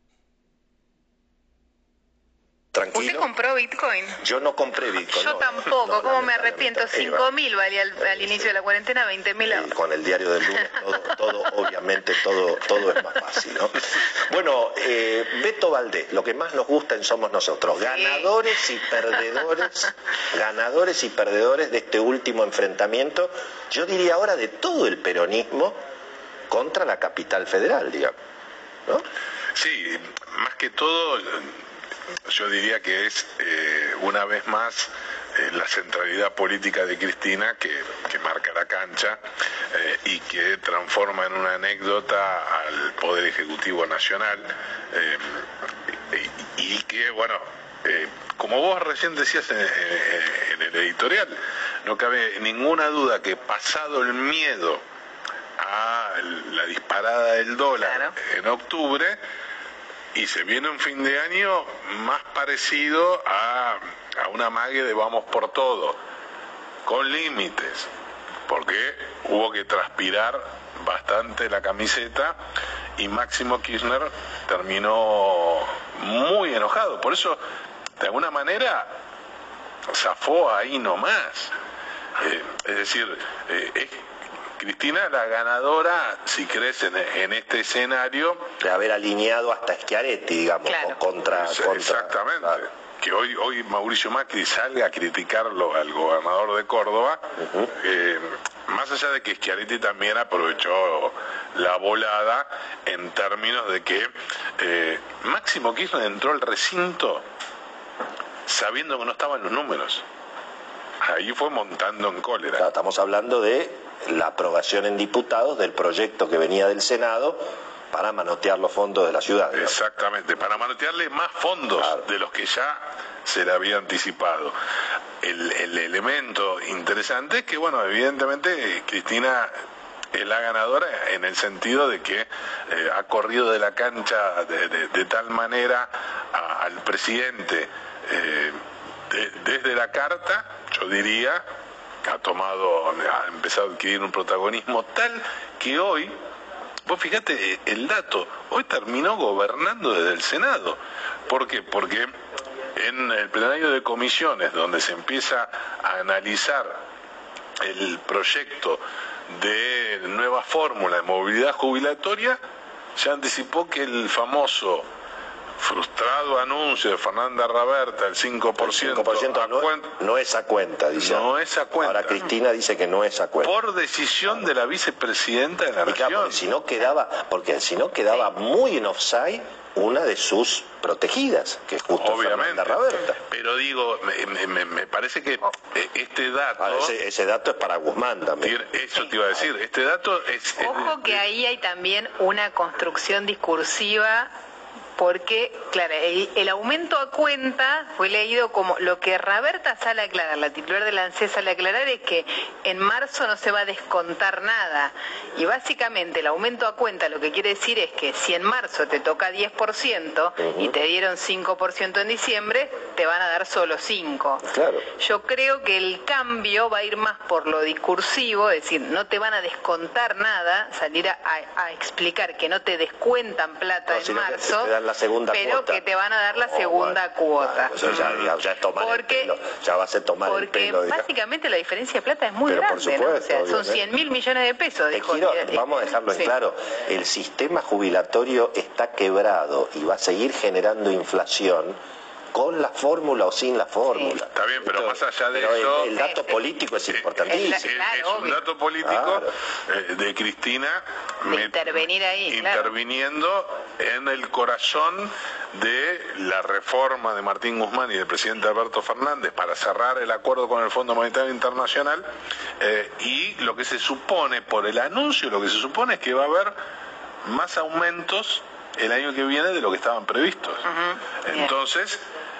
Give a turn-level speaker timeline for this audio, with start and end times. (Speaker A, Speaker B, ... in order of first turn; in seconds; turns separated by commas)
Speaker A: 2.7-3.3, Speaker B: 2.9-4.2, Speaker A: 4.2-7.3, Speaker B: 5.1-9.7, Speaker A: 8.0-8.5, Speaker A: 9.5-25.8, Speaker B: 17.9-18.6, Speaker A: 26.5-28.1, Speaker C: 29.5-31.6, Speaker C: 32.3-39.2, Speaker C: 39.7-45.5, Speaker C: 46.1-54.8, Speaker C: 55.6-59.2, Speaker B: 57.8-58.1, Speaker C: 60.1-66.0, Speaker C: 66.8-67.9, Speaker C: 68.5-72.4, Speaker C: 73.0-77.4, Speaker C: 78.0-79.0, Speaker C: 79.9-81.5, Speaker C: 82.2-84.0, Speaker C: 84.6-88.5, Speaker A: 88.6-92.6, Speaker B: 90.6-91.0, Speaker C: 91.3-107.2, Speaker A: 97.4-97.7, Speaker C: 108.5-110.0, Speaker C: 111.0-112.7, Speaker A: 112.5-119.8, Speaker C: 119.5-124.5, Speaker A: 121.8-122.0, Speaker C: 125.2-129.5, Speaker C: 130.1-141.4, Speaker C: 142.0-146.1, Speaker C: 146.8-152.1, Speaker C: 152.8-156.8, Speaker C: 157.6-162.4, Speaker C: 162.9-164.9, Speaker C: 165.6-170.0, Speaker A: 168.6-171.3, Speaker C: 171.0-172.3, Speaker A: 171.8-173.5, Speaker C: 173.4-176.5, Speaker A: 175.8-183.2, Speaker C: 182.0-186.9, Speaker A: 186.6-188.6, Speaker C: 188.4-191.2, Speaker B: 190.6-194.3, Speaker B: 195.0-224.8, Speaker A: 210.4-210.7, Speaker A: 214.5-214.8, Speaker A: 223.9-231.1, Speaker B: 225.3-228.1, Speaker B: 228.8-229.3, Speaker B: 230.2-236.3, Speaker A: 232.5-233.8, Speaker A: 234.9-241.8, Speaker A: 242.3-247.8, Speaker B: 243.9-244.2, Speaker C: 244.3-246.0, Speaker C: 246.9-262.1, Speaker B: 247.3-248.4, Speaker A: 248.8-249.3, Speaker B: 251.2-252.8, Speaker C: 262.6-266.6, Speaker C: 267.2-270.6, Speaker B: 270.6-271.5, Speaker C: 271.2-272.0